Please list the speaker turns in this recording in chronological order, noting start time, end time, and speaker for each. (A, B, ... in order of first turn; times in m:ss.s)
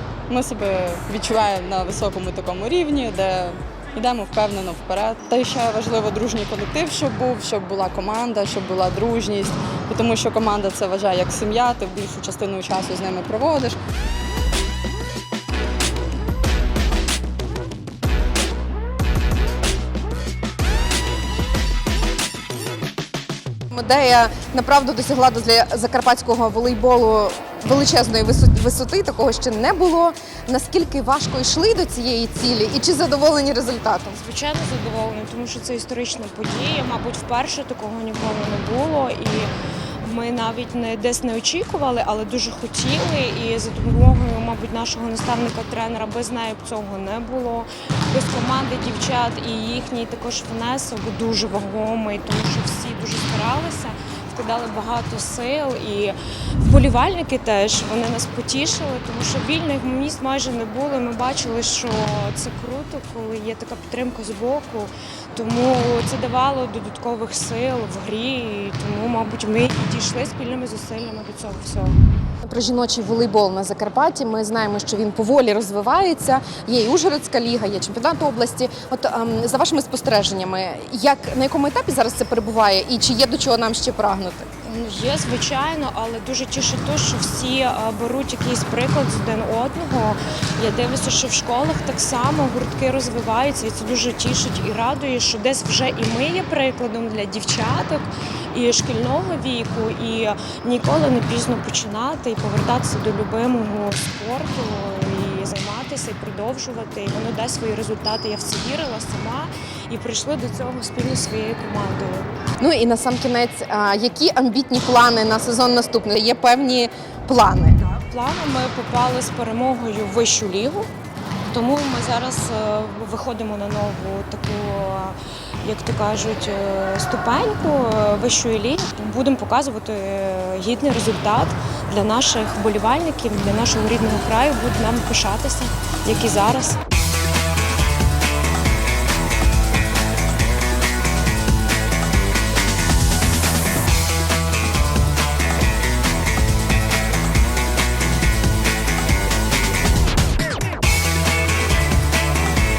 0:00.3-0:13.8 A
0:23.7-0:34.2 B
0:34.2-0:39.5 C
0:40.0-1:12.0 C
1:12.4-1:24.5 B
1:24.6-1:52.3 C
1:52.6-1:57.8 B
1:57.8-2:00.9 C
2:01.4-2:16.8 C